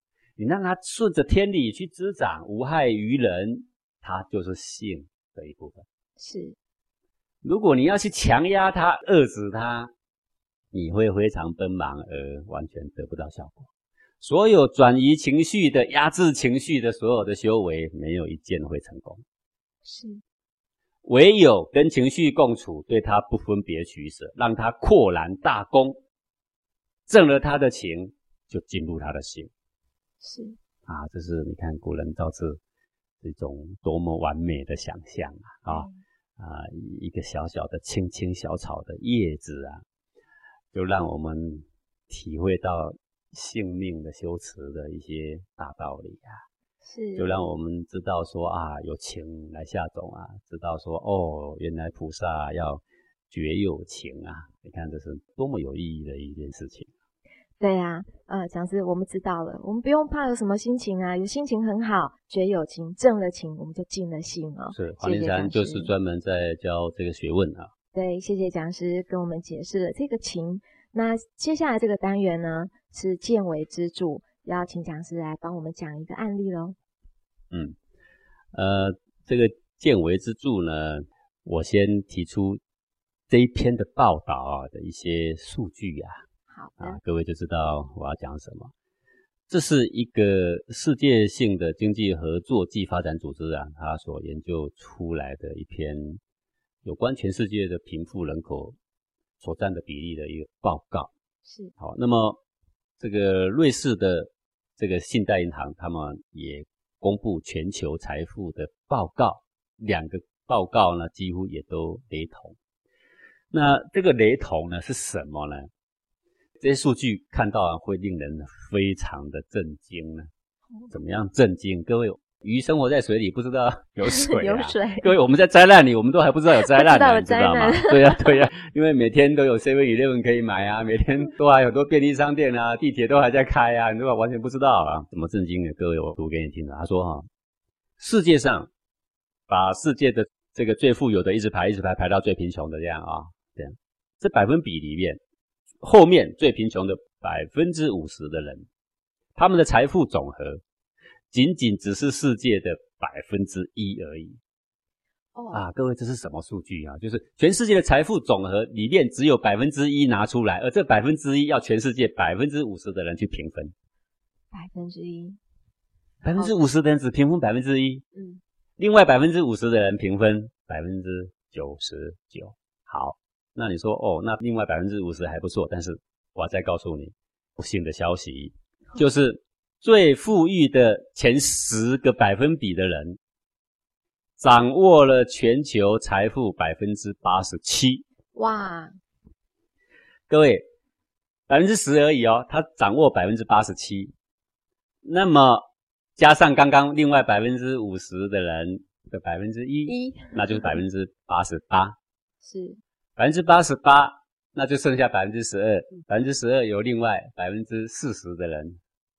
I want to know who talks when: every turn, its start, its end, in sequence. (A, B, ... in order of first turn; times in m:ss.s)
0:00.4-0:05.8 A
0:06.2-0:06.6 B
0:07.4-0:09.9 A
0:10.7-0:13.7 A
0:14.2-0:19.2 A
0:19.8-0:20.2 B
0:21.0-0:26.0 A
0:27.1-0:29.5 A
0:30.2-0:30.6 B
0:30.8-0:32.6 A
0:33.2-0:39.8 A
0:35.7-0:36.0 B
0:40.7-0:46.4 A
0:46.8-0:47.5 B
0:47.2-0:56.9 A
0:57.6-1:05.9 B
1:04.7-1:07.7 A
1:07.9-1:16.8 B
1:17.5-1:17.8 A
1:18.5-1:22.6 A
1:23.3-1:26.2 A
1:26.5-1:27.0 B
1:26.8-1:28.7 A
1:29.5-1:36.2 A
1:36.8-1:38.8 A
1:39.4-1:41.1 A
1:41.4-1:41.7 B
1:41.8-1:42.4 A
1:43.0-1:52.6 A
1:53.5-1:55.7 A
1:56.6-2:00.3 A
2:00.9-2:17.3 A
2:04.0-2:05.1 B
2:06.6-2:08.4 B
2:18.0-2:18.7 A
2:19.5-2:25.2 A
2:25.8-2:28.7 A
2:29.4-2:30.6 A
2:31.3-2:34.4 A
2:35.3-2:35.6 B
2:35.5-2:43.7 A
2:44.5-2:45.4 B
2:46.2-2:48.0 A
2:48.1-2:48.4 B
2:48.8-3:03.2 A
3:04.4-3:08.0 A
3:08.3-3:09.0 B
3:10.3-3:10.6 A
3:11.5-3:14.1 A
3:15.0-3:15.6 A
3:16.2-3:22.0 A
3:19.9-3:20.8 B
3:22.4-3:22.8 B
3:23.2-3:28.8 A